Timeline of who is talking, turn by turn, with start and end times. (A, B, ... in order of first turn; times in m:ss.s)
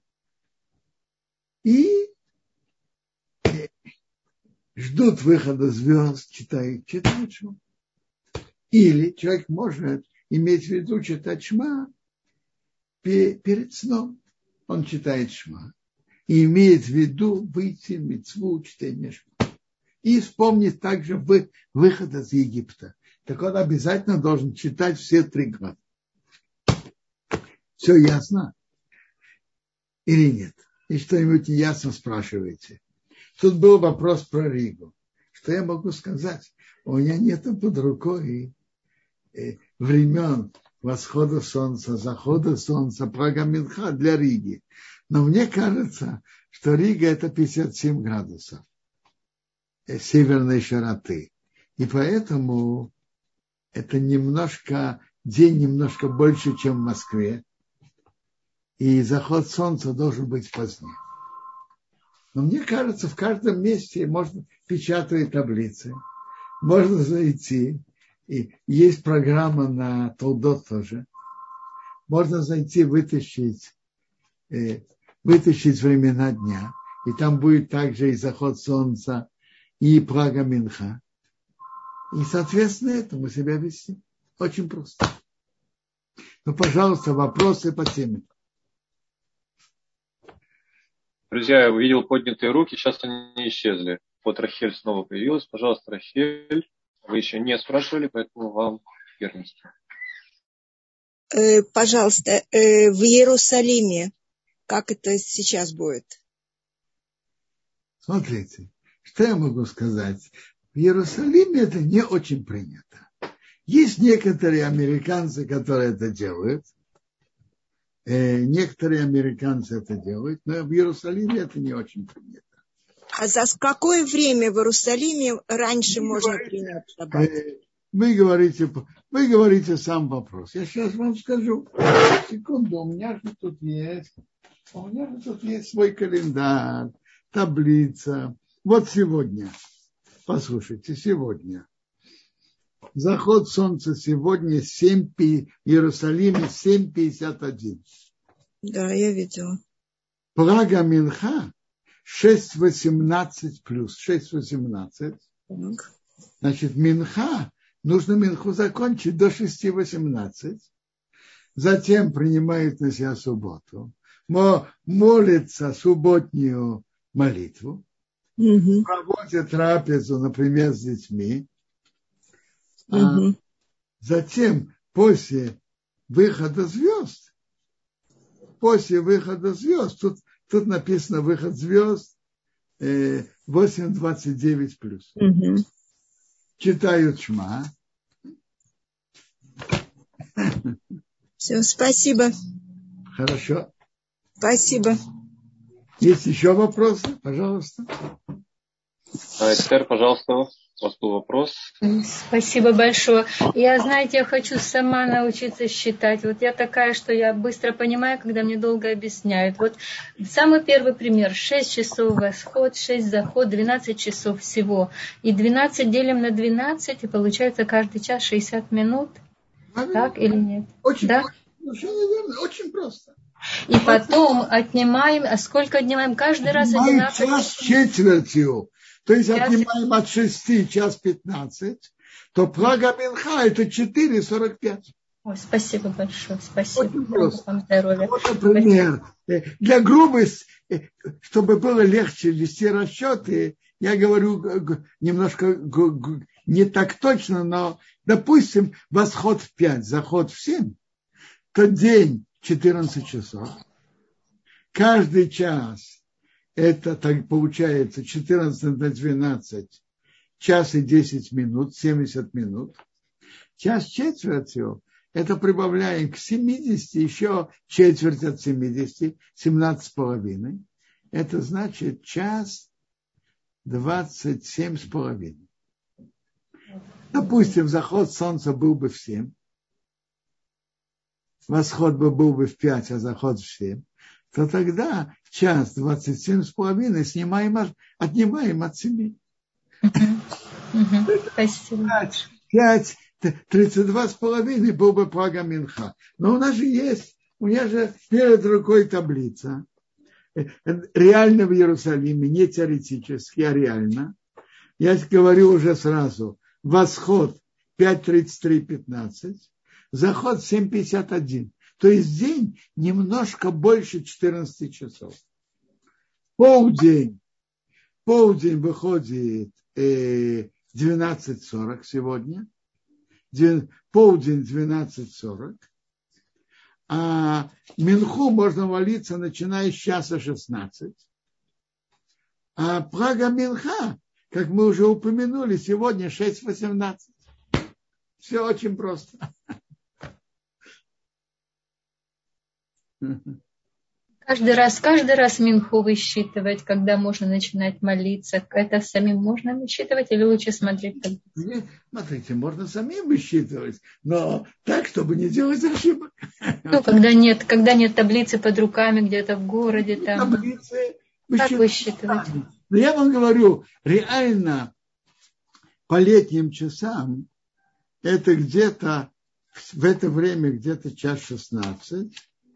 0:01.6-0:02.1 A
0:03.4-0:03.7 A
0:04.8-0:07.6 A
0:08.7-0:11.9 A
0:13.0-0:15.7 A
0:16.3-0:19.3 A
0:20.0-0:25.8 A
0:27.8-0:28.5 A
0:30.0-0:32.8 A
0:33.4-0:38.5 A
0:39.3-0:48.6 A
0:49.9-0:52.9 A
0:53.7-0:57.4 A
0:58.8-1:01.0 A
1:02.3-1:06.0 A
1:06.6-1:11.0 A
1:12.1-1:13.7 A
1:14.5-1:19.3 A
1:19.8-1:21.0 A
1:22.1-1:25.1 A
1:26.4-1:28.3 A
1:31.3-1:39.7 B
1:41.3-1:44.1 C
1:44.7-1:46.2 C
1:48.0-1:53.1 A
1:53.7-1:56.7 A
1:58.0-2:02.5 A
2:03.2-2:07.3 C
2:05.9-2:14.1 A
2:14.7-2:19.6 A
2:20.3-2:21.6 A
2:23.0-2:27.8 A
2:28.6-2:29.6 C
2:30.3-2:31.5 A
2:32.0-2:35.2 A
2:35.5-2:35.9 C
2:36.4-2:40.7 A
2:41.6-2:47.8 A
2:48.4-2:48.8 C
2:48.8-2:51.5 A
2:52.9-2:53.3 A
2:52.9-2:53.3 C
2:54.0-2:55.6 A
2:56.1-2:57.3 A
2:58.6-3:02.1 A
3:02.8-3:05.2 A
3:05.2-3:05.6 C
3:06.6-3:07.7 A
3:10.4-3:10.7 A
3:11.4-3:12.3 C
3:13.2-3:13.7 A
3:14.4-3:15.0 C
3:16.0-3:17.9 A
3:19.4-3:21.7 B
3:21.8-3:39.2 D
3:39.7-3:43.1 A
3:39.9-3:41.3 D
3:43.7-3:47.8 D
3:43.8-3:44.4 A
3:46.4-3:54.9 A
3:49.3-3:49.7 D
3:55.3-3:58.7 D
3:56.8-3:57.4 A
3:58.0-4:10.8 A
4:11.5-4:13.6 A
4:14.7-4:16.0 A
4:16.6-4:19.8 A
4:20.4-4:22.8 A
4:23.6-4:30.6 A
4:31.1-4:32.7 A
4:33.6-4:35.5 A
4:37.1-4:39.3 A
4:41.5-4:43.8 A
4:44.3-4:49.2 A
4:49.9-4:50.2 D
4:50.7-4:52.0 D
4:51.1-4:59.6 A
5:00.3-5:04.1 A
5:04.8-5:15.2 A
5:16.4-5:17.2 A
5:18.0-5:22.5 A
5:23.3-5:25.6 A
5:26.9-5:31.0 A
5:32.6-5:37.2 A
5:38.2-5:39.2 A
5:43.0-5:43.3 A
5:44.3-5:51.2 D
5:51.3-5:56.9 A
5:56.7-6:00.4 D
5:59.8-6:04.7 A
6:01.4-6:02.2 D
6:05.9-6:07.3 A
6:08.0-6:12.1 A